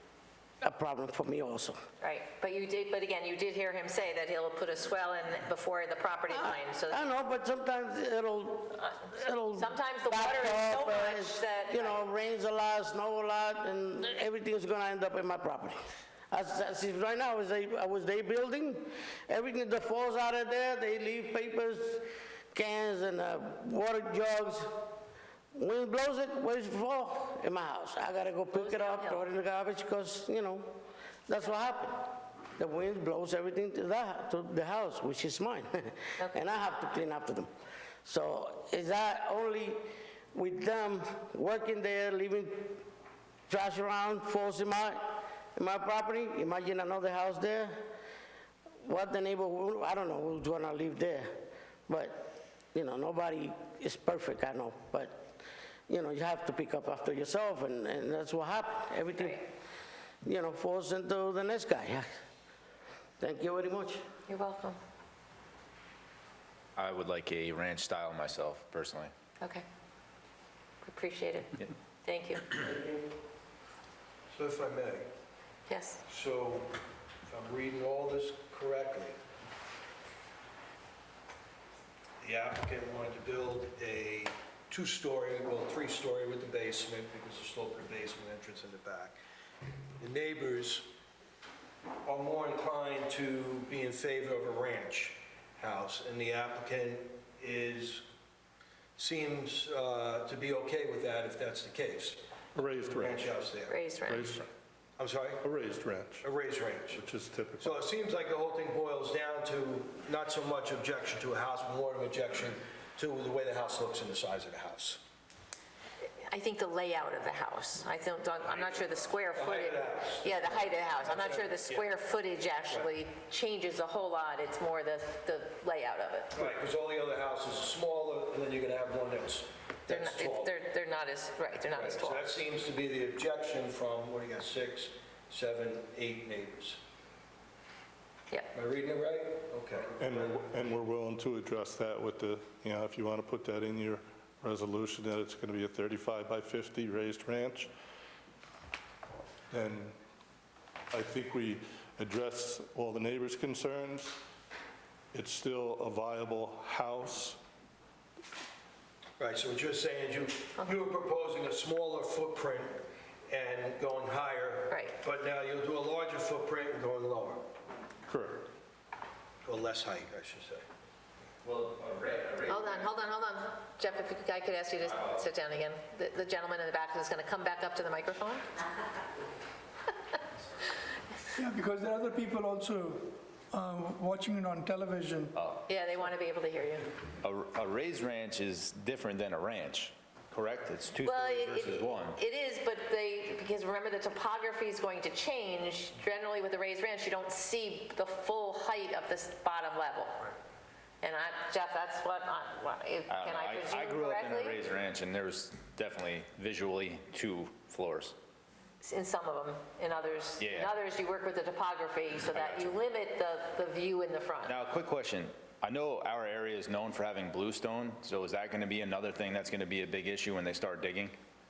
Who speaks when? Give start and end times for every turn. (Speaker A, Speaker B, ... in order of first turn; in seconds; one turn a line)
Speaker A: 0.6-1.8
Speaker B: 2.0-7.1
Speaker A: 6.3-24.9
Speaker B: 9.5-12.0
Speaker A: 25.5-30.7
Speaker B: 28.5-29.3
Speaker A: 31.3-37.5
Speaker B: 36.2-36.5
Speaker A: 38.0-42.8
Speaker A: 43.5-47.8
Speaker A: 48.8-55.4
Speaker A: 55.9-59.4
Speaker A: 60.2-62.1
Speaker A: 63.2-64.0
Speaker B: 64.3-64.8
Speaker C: 66.8-69.1
Speaker B: 70.8-72.6
Speaker D: 74.3-75.1
Speaker B: 75.7-76.0
Speaker D: 76.1-79.2
Speaker D: 82.2-89.2
Speaker D: 90.0-90.9
Speaker D: 92.0-98.0
Speaker D: 99.0-103.8
Speaker E: 102.5-103.3
Speaker B: 103.7-104.3
Speaker E: 104.0-104.5
Speaker D: 105.0-105.4
Speaker E: 105.4-106.3
Speaker D: 106.2-107.0
Speaker E: 106.9-107.8
Speaker D: 107.6-115.0
Speaker B: 116.2-126.3
Speaker D: 119.3-121.9
Speaker D: 126.3-130.5
Speaker B: 129.9-132.3
Speaker D: 131.7-136.8
Speaker D: 138.5-140.3
Speaker E: 140.0-147.7
Speaker E: 149.5-149.9
Speaker E: 150.9-154.2
Speaker E: 155.1-157.4
Speaker D: 159.2-167.4
Speaker B: 164.7-164.9
Speaker E: 168.1-168.5
Speaker D: 169.4-170.6
Speaker C: 171.4-173.2
Speaker B: 172.5-178.5
Speaker C: 174.8-175.2
Speaker F: 181.4-185.3
Speaker C: 185.3-185.6
Speaker B: 185.7-186.9
Speaker C: 187.2-192.2
Speaker B: 191.0-200.3
Speaker B: 201.0-204.6
Speaker C: 203.1-208.2
Speaker B: 208.8-214.5
Speaker C: 210.4-210.8
Speaker C: 212.2-212.8
Speaker C: 214.4-221.2